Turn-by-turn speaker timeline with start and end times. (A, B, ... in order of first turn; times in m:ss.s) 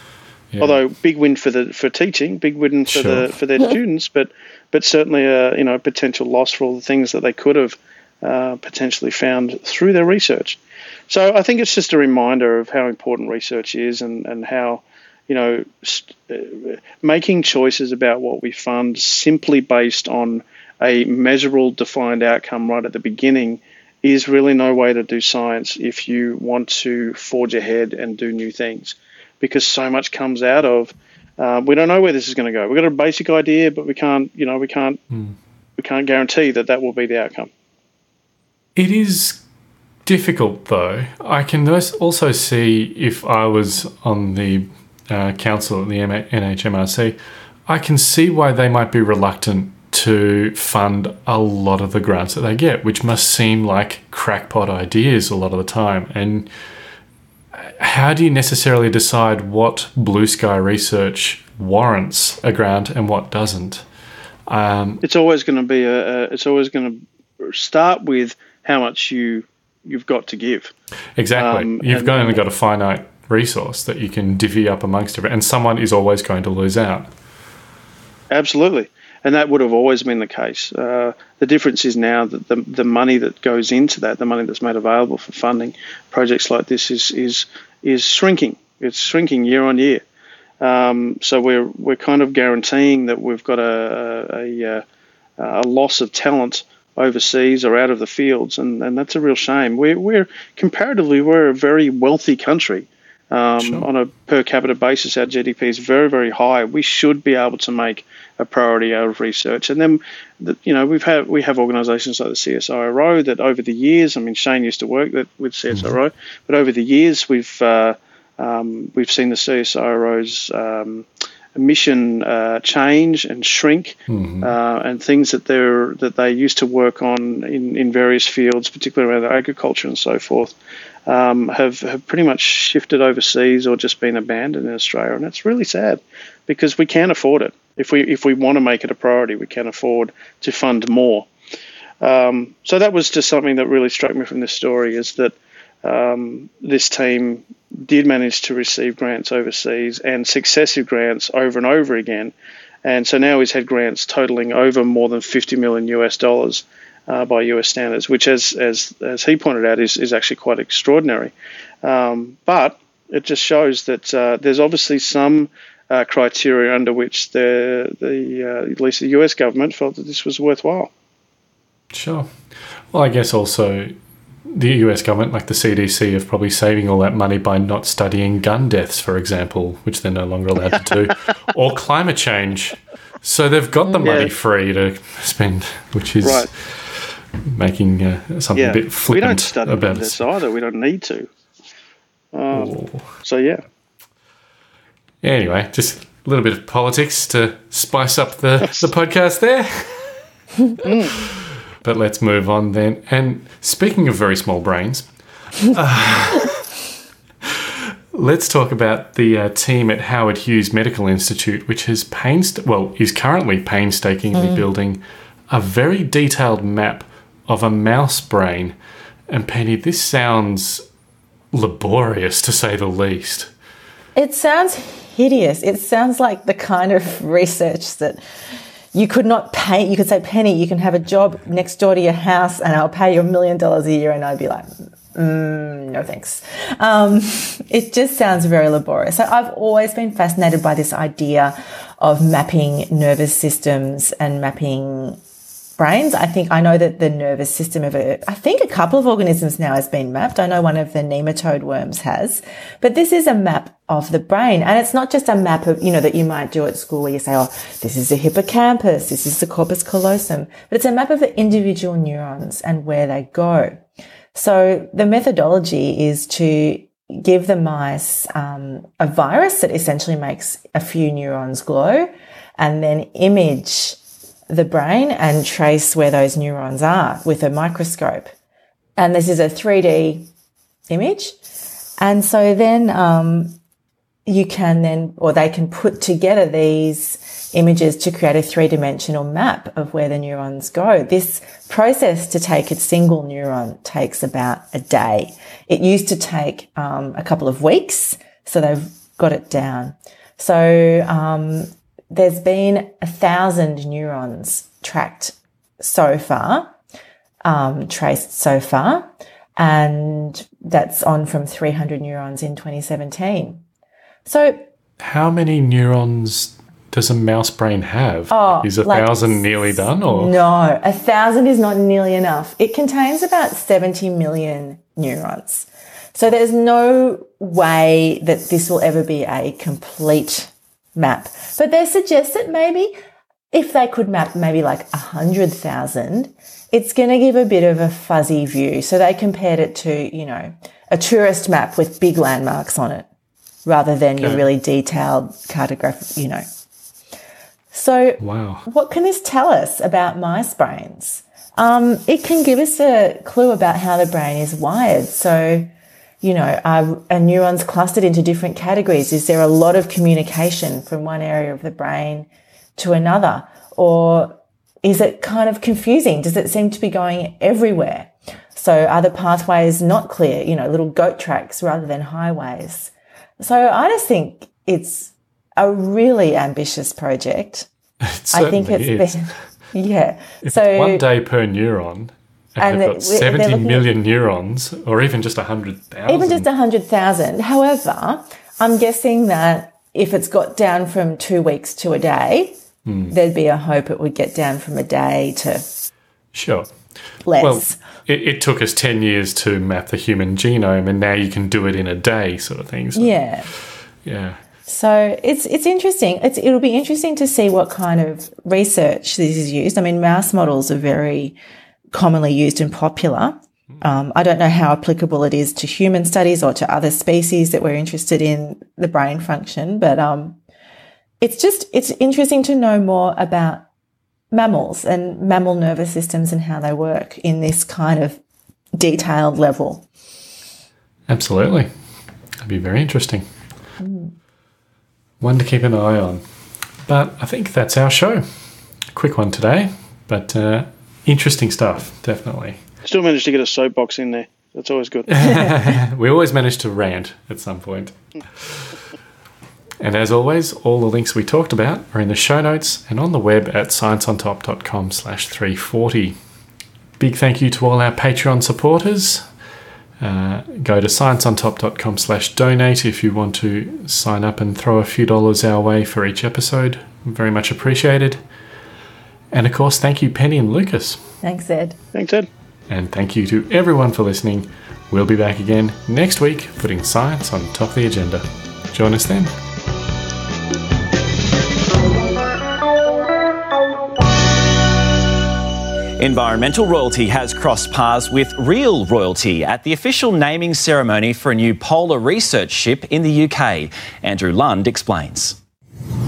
0:00.5-0:00.8 A
0:00.6-0:10.6 B
0:02.9-0:03.3 A
0:11.1-0:35.0 B
0:35.8-0:37.5 B
0:38.8-0:39.4 A
0:40.0-0:56.5 A
0:57.5-1:03.8 A
1:04.5-1:05.0 A
1:05.0-1:10.7 B
1:11.2-1:17.1 A
1:11.4-1:12.4 B
1:18.3-1:30.0 B
1:30.6-1:34.8 B
1:35.4-2:10.5 B
1:43.6-1:43.9 A
1:55.7-1:56.0 A
2:04.1-2:04.5 A
2:11.1-2:21.3 B
2:22.0-2:32.3 B
2:32.8-2:50.9 B
2:51.9-2:53.9 A
2:54.5-3:10.2 A
3:04.0-3:04.3 B
3:06.2-3:06.5 B
3:08.6-3:11.3 B
3:12.3-3:13.6 B
3:12.5-3:13.1 A
3:15.2-3:20.3 A
3:20.8-3:21.3 B
3:20.8-3:26.7 A
3:27.4-3:38.8 A
3:34.3-3:34.6 C
3:39.3-3:40.8 A
3:41.5-3:43.5 A
3:44.2-3:48.2 C
3:48.9-4:05.2 C
4:05.8-4:23.8 C
4:24.3-4:34.0 C
4:34.5-4:38.3 C
4:39.0-4:40.3 C
4:40.9-4:41.4 C
4:42.0-4:43.6 C
4:44.3-5:06.7 C
5:07.4-5:09.1 C
5:09.6-5:13.6 C
5:14.3-5:14.7 C
5:15.0-5:20.3 A
5:18.3-5:32.9 C
5:33.5-5:43.1 C
5:43.7-5:46.4 C
5:44.2-5:44.5 A
5:47.7-5:55.7 C
5:48.2-5:48.6 A
5:56.2-6:17.7 C
6:18.0-6:19.4 A
6:18.3-6:21.0 C
6:20.4-6:26.5 A
6:22.6-6:23.8 C
6:26.1-6:32.6 C
6:32.9-6:33.1 A
6:33.1-6:35.6 C
6:36.3-6:36.8 A
6:37.3-6:37.8 C
6:37.4-6:44.4 A
6:43.0-6:43.5 C
6:44.7-6:51.4 C
6:51.9-7:00.4 C
7:01.2-7:03.7 C
7:04.3-7:08.2 C
7:08.8-7:09.9 C
7:11.1-7:11.7 A
7:12.4-7:13.3 A
7:13.8-7:14.1 C
7:15.2-7:16.2 A
7:16.8-7:22.6 A
7:22.8-7:25.3 B
7:25.1-7:28.9 A
7:29.8-7:36.2 A
7:37.0-7:39.3 A
7:40.0-7:48.2 A
7:49.3-7:51.0 A
7:51.2-7:51.8 C
7:51.9-7:52.3 B
7:52.7-7:59.3 A
8:06.0-8:15.4 D